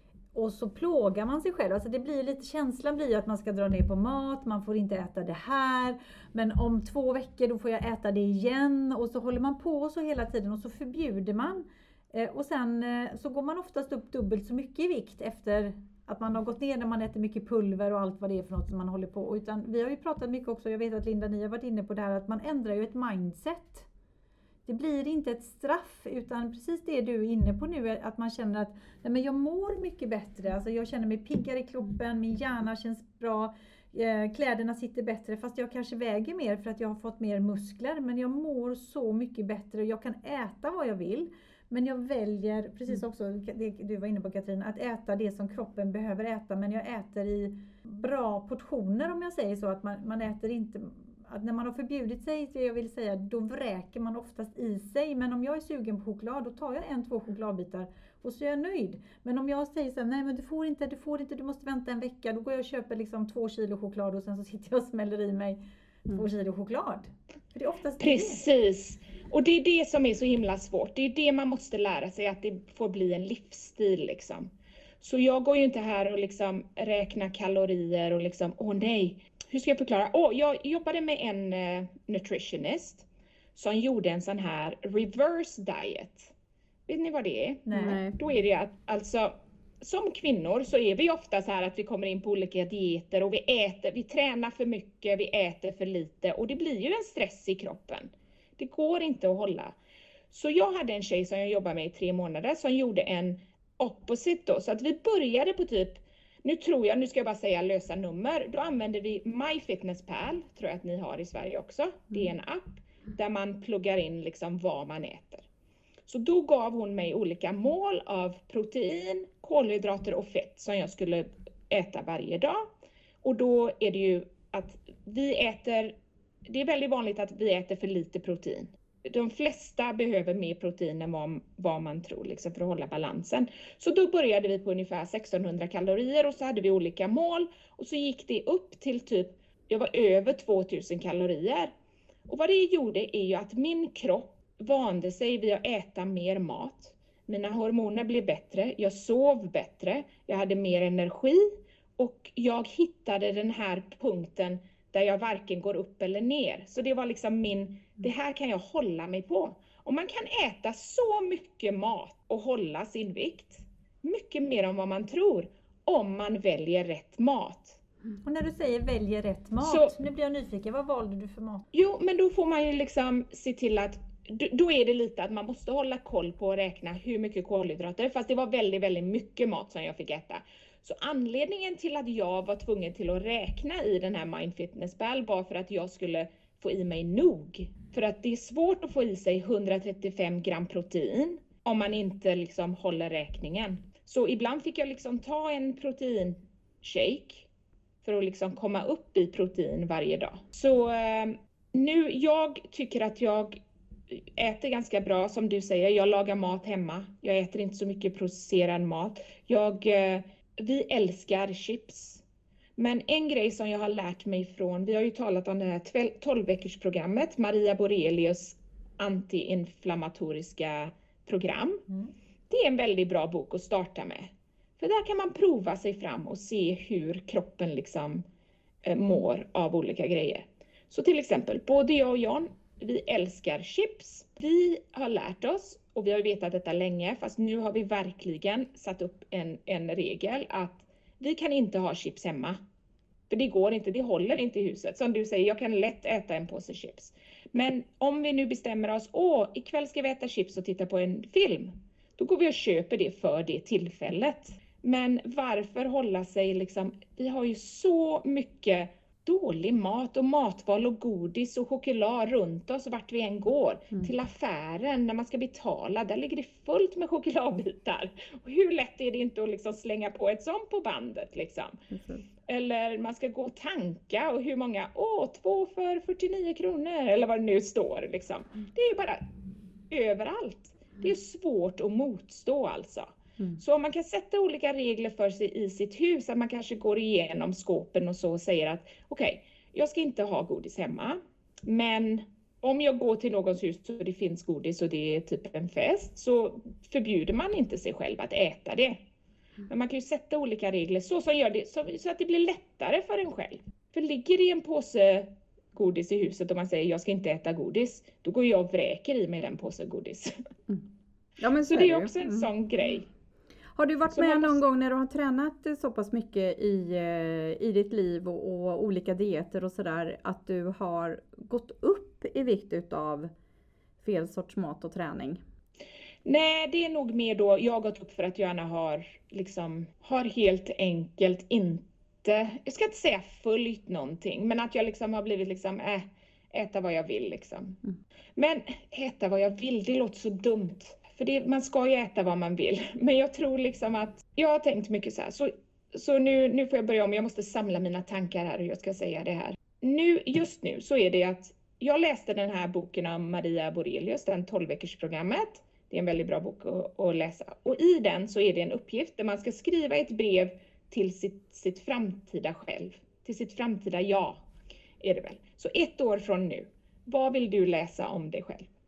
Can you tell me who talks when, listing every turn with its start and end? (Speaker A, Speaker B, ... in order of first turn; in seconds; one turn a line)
Speaker A: 0.3-23.9
Speaker A: 24.6-68.4
Speaker B: 68.0-86.3
Speaker B: 86.9-99.7
Speaker A: 87.7-88.0
Speaker C: 87.8-88.2
Speaker B: 100.3-115.4
Speaker B: 116.1-122.7
Speaker B: 123.2-125.9
Speaker B: 126.5-141.7
Speaker B: 142.3-167.8
Speaker A: 168.2-171.6
Speaker B: 169.6-169.9
Speaker B: 171.7-197.5
Speaker B: 198.0-203.6
Speaker B: 204.1-212.2
Speaker B: 212.8-221.8
Speaker B: 222.5-228.2
Speaker B: 228.8-242.6
Speaker B: 243.3-271.8
Speaker C: 271.9-272.2
Speaker B: 272.5-279.2
Speaker B: 279.9-299.0
Speaker B: 299.7-310.4
Speaker C: 311.4-312.5
Speaker B: 311.6-313.1
Speaker C: 313.7-323.3
Speaker B: 314.1-314.6
Speaker C: 324.0-325.4
Speaker B: 326.2-337.8
Speaker B: 338.4-364.4
Speaker B: 365.0-368.7